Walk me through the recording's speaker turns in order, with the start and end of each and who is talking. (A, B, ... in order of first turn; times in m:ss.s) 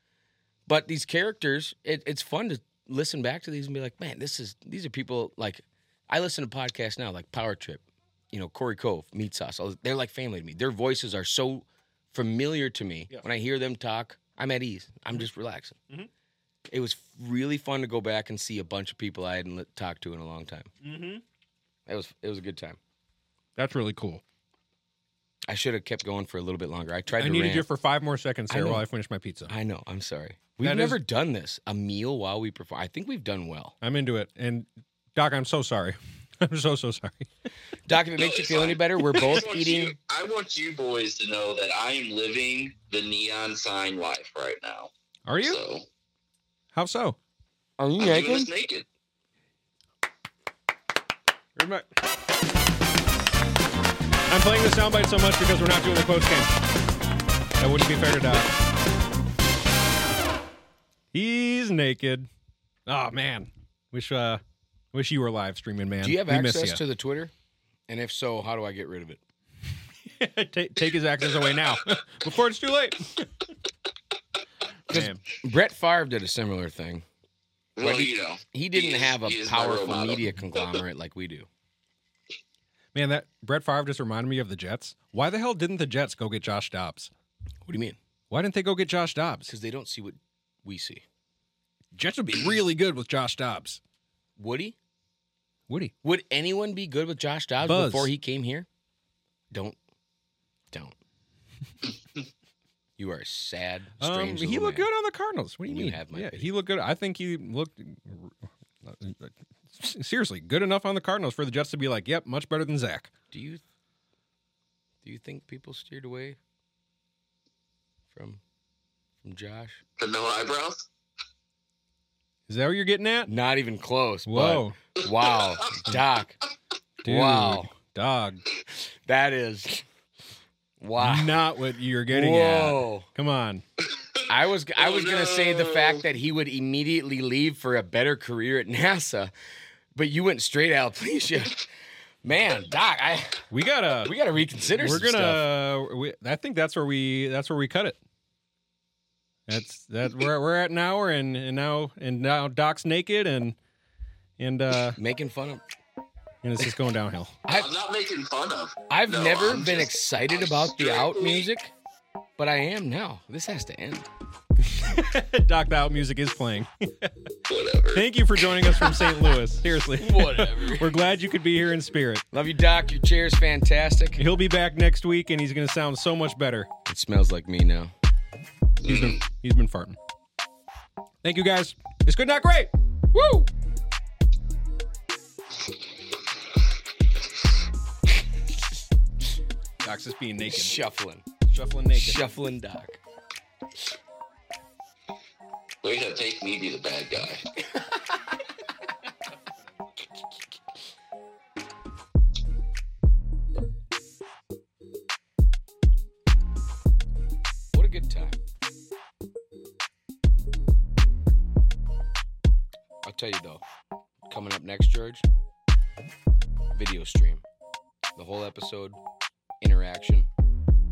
0:00.7-0:15.8 A
0:16.7-0:20.7 A
0:20.8-0:21.2 B
0:21.9-0:22.8 A
0:23.6-0:24.2 B
0:25.5-0:27.7 A
0:27.1-0:29.5 B
0:28.5-0:28.8 A
0:29.5-0:33.8 A
0:30.6-0:31.0 B
0:33.8-0:37.3 B
0:37.9-0:39.9 A
0:38.2-0:45.8 C
0:45.2-0:45.6 B
0:46.7-0:47.2 B
0:47.8-0:48.5 A
0:48.0-0:48.8 C
0:51.6-0:51.9 B
0:54.3-0:56.5 B
0:57.6-0:58.5 B
1:01.1-1:02.3 B
1:02.9-1:04.4 B
1:04.9-1:06.8 B
1:06.0-1:07.3 A
1:07.9-1:09.2 A
1:10.0-1:13.3 B
1:14.9-1:17.0 A
1:14.9-1:15.2 B
1:17.8-1:20.6 C
1:17.8-1:21.5 A
1:22.9-1:27.1 B
1:27.6-1:28.0 A
1:28.3-1:29.5 B
1:29.5-1:31.0 A
1:31.9-1:33.8 B
1:34.4-1:34.8 A
1:36.0-1:38.7 A
1:37.6-1:38.1 B
1:39.5-1:39.8 A
1:43.0-1:44.9 A
1:44.0-1:53.1 B
1:45.7-1:46.5 A
1:53.3-1:53.6 A
1:55.0-1:56.4 A
1:58.1-1:58.4 A
1:59.2-1:59.8 A
2:00.0-2:00.8 C
2:02.5-2:03.3 B
2:03.3-2:06.4 A
2:04.2-2:04.8 B
2:05.2-2:05.7 C
2:07.0-2:08.4 B
2:07.0-2:07.7 A
2:08.7-2:09.8 A
2:10.8-2:11.4 A
2:11.0-2:13.6 B
2:12.1-2:13.1 A
2:14.3-2:19.3 A
2:14.8-2:16.0 C
2:20.0-2:21.7 A
2:22.2-2:23.5 A
2:23.5-2:24.1 B
2:24.0-2:25.5 A
2:24.8-2:28.0 B
2:29.5-2:33.6 B
2:34.4-2:35.0 B
2:35.0-2:35.6 A
2:36.4-2:37.4 B
2:37.5-2:41.5 C
2:38.9-2:41.7 A
2:42.4-2:44.0 A
2:44.6-2:47.3 B
2:47.5-2:48.0 C
2:47.9-2:52.2 B
2:48.7-2:49.0 C
2:49.9-2:50.9 A
2:52.3-2:54.2 A
2:54.2-2:56.7 B
2:56.9-2:57.9 A
2:58.8-2:59.2 C
2:58.8-3:00.0 B
3:01.2-3:02.7 B
3:03.1-3:03.5 A
3:09.8-3:10.8 B
3:10.4-3:11.2 A
3:11.5-3:12.3 B
3:11.9-3:13.0 A
3:15.8-3:17.4 C
3:27.7-3:28.4 A
3:33.0-3:33.6 A
3:34.3-3:35.2 A
3:36.7-3:37.4 A
3:38.2-3:39.0 A
3:39.6-3:40.3 A